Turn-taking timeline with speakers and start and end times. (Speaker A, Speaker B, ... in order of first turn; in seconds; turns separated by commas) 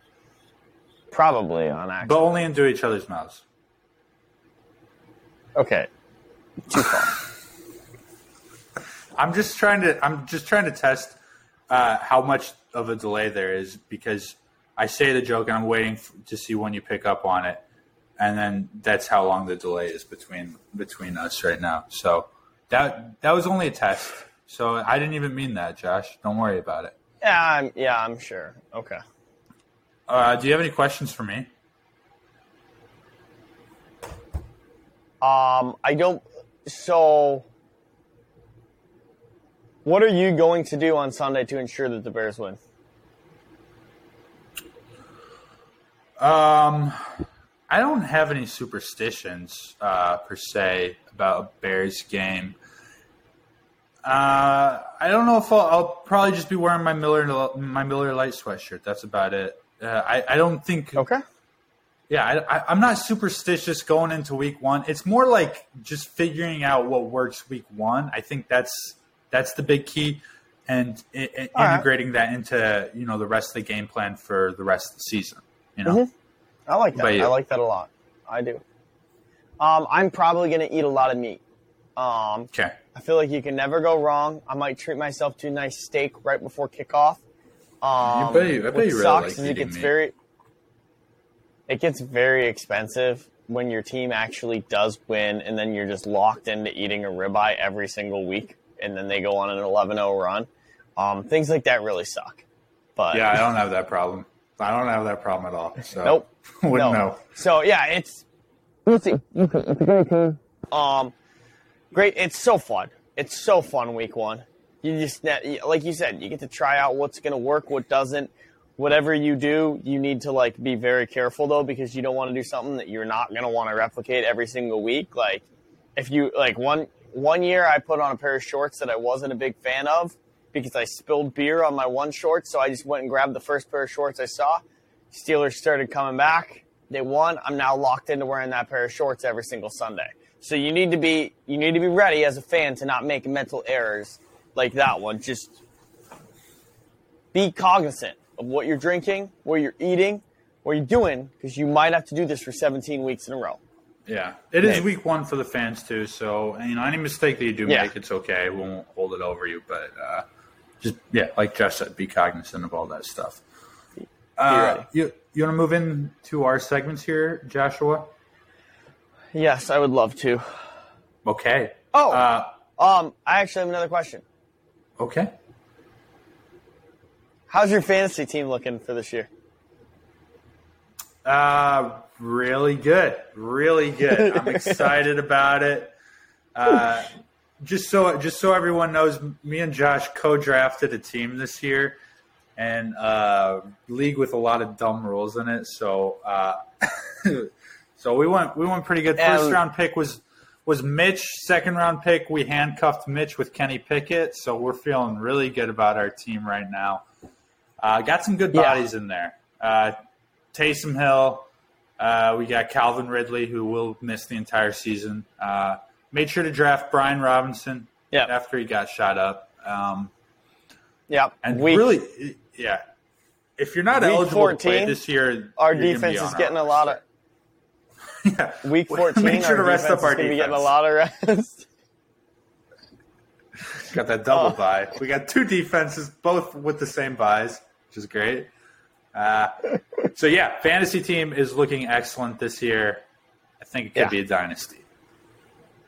Speaker A: 1.1-2.2, Speaker B: 2.0-3.4, Speaker A: 5.6-5.9, Speaker A: 6.7-7.2, Speaker B: 9.2-11.2, Speaker B: 11.7-17.6, Speaker B: 18.2-26.9, Speaker A: 27.2-29.0, Speaker B: 30.1-31.5, Speaker A: 35.2-37.5, Speaker A: 39.9-42.6, Speaker B: 46.2-52.6, Speaker B: 54.0-61.0, Speaker A: 61.0-61.2, Speaker B: 62.1-76.0, Speaker A: 71.5-71.8, Speaker A: 76.7-78.6, Speaker B: 76.9-77.3, Speaker A: 79.6-81.4, Speaker A: 82.0-87.2, Speaker A: 87.8-90.1, Speaker B: 88.0-89.9, Speaker A: 91.7-102.4, Speaker A: 103.0-103.4, Speaker B: 103.1-107.2, Speaker A: 106.0-108.2, Speaker A: 108.9-111.1, Speaker A: 111.9-125.5, Speaker A: 126.0-145.6, Speaker A: 147.3-153.6, Speaker B: 154.1-160.3, Speaker B: 160.8-163.4, Speaker B: 164.4-168.1, Speaker A: 164.5-164.8, Speaker A: 169.3-170.5, Speaker B: 171.2-172.5, Speaker A: 171.9-174.2, Speaker B: 175.0-175.3, Speaker A: 177.5-179.3, Speaker B: 181.2-185.9, Speaker A: 184.1-184.8, Speaker B: 186.6-192.0, Speaker B: 192.6-207.0, Speaker A: 199.2-199.6, Speaker B: 207.8-209.9, Speaker A: 208.5-208.8, Speaker B: 210.5-211.5, Speaker B: 212.0-220.1, Speaker A: 221.1-221.9, Speaker B: 221.4-222.8, Speaker B: 223.6-227.0, Speaker A: 224.0-225.0, Speaker A: 225.6-227.0, Speaker B: 228.2-230.7, Speaker A: 228.6-231.7, Speaker B: 233.7-238.5, Speaker B: 239.1-243.0, Speaker B: 243.6-244.8